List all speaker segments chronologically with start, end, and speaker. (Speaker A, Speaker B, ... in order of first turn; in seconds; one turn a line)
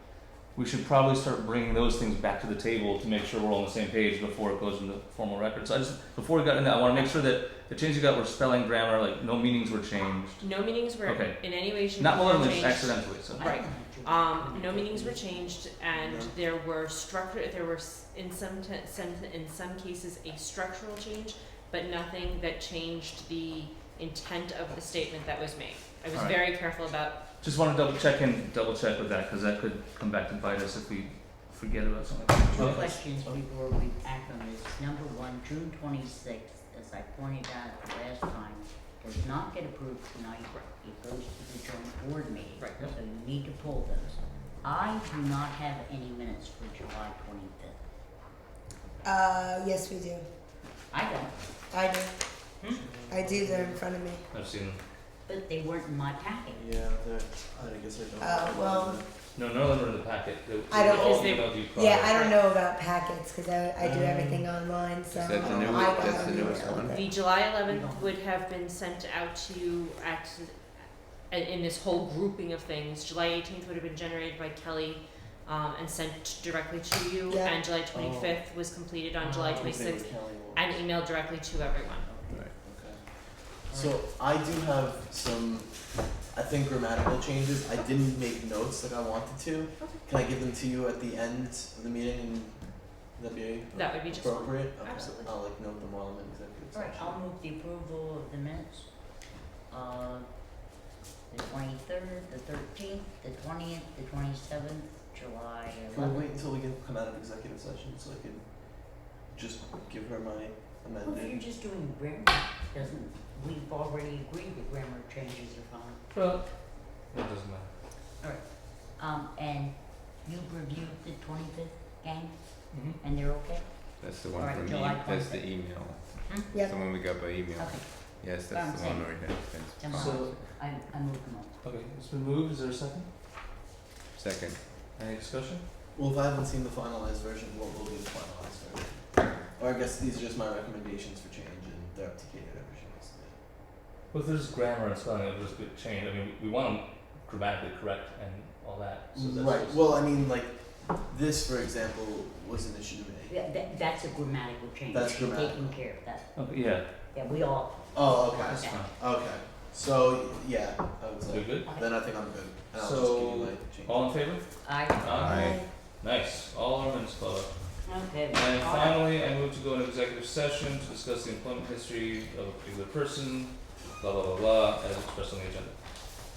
Speaker A: 0.5-10.5
Speaker B: 10.4-27.2
Speaker A: 11.0-13.6
Speaker C: 12.5-12.8
Speaker C: 13.3-15.6
Speaker D: 15.9-16.4
Speaker A: 26.1-26.5
Speaker A: 27.4-32.8
Speaker C: 32.5-47.8
Speaker D: 32.5-33.4
Speaker B: 42.6-42.9
Speaker E: 49.0-50.2
Speaker C: 50.9-51.5
Speaker E: 51.7-52.1
Speaker D: 52.7-53.8
Speaker E: 53.1-54.2
Speaker A: 54.3-54.8
Speaker C: 55.3-56.6
Speaker D: 56.5-59.1
Speaker E: 58.2-59.0
Speaker A: 59.4-62.2
Speaker E: 60.7-67.1
Speaker B: 60.9-62.4
Speaker D: 63.8-64.5
Speaker D: 65.2-66.8
Speaker F: 65.2-67.1
Speaker B: 66.9-82.1
Speaker C: 67.7-68.2
Speaker E: 77.3-77.7
Speaker D: 77.9-78.4
Speaker C: 79.2-79.8
Speaker D: 79.5-80.8
Speaker C: 82.1-82.4
Speaker D: 82.6-97.2
Speaker C: 83.7-84.0
Speaker B: 93.7-95.3
Speaker C: 96.7-98.9
Speaker C: 99.7-100.4
Speaker C: 101.3-106.3
Speaker D: 105.9-111.4
Speaker C: 111.0-116.0
Speaker A: 116.1-117.7
Speaker C: 118.2-125.5
Speaker A: 122.7-123.0
Speaker F: 124.0-130.4
Speaker C: 126.3-126.5
Speaker E: 126.5-126.8
Speaker C: 127.6-131.6
Speaker A: 129.9-130.3
Speaker A: 131.6-133.1
Speaker F: 134.1-134.6
Speaker A: 134.9-135.6
Speaker D: 135.9-143.4
Speaker A: 144.1-150.0
Speaker D: 149.1-153.3
Speaker C: 153.3-158.9
Speaker D: 154.9-155.8
Speaker A: 156.3-156.9
Speaker D: 157.9-164.1
Speaker A: 158.4-158.9
Speaker A: 161.3-161.7
Speaker C: 161.7-162.1
Speaker A: 162.7-176.1
Speaker C: 164.6-165.3
Speaker F: 165.1-165.6
Speaker E: 165.3-165.7
Speaker C: 167.8-169.1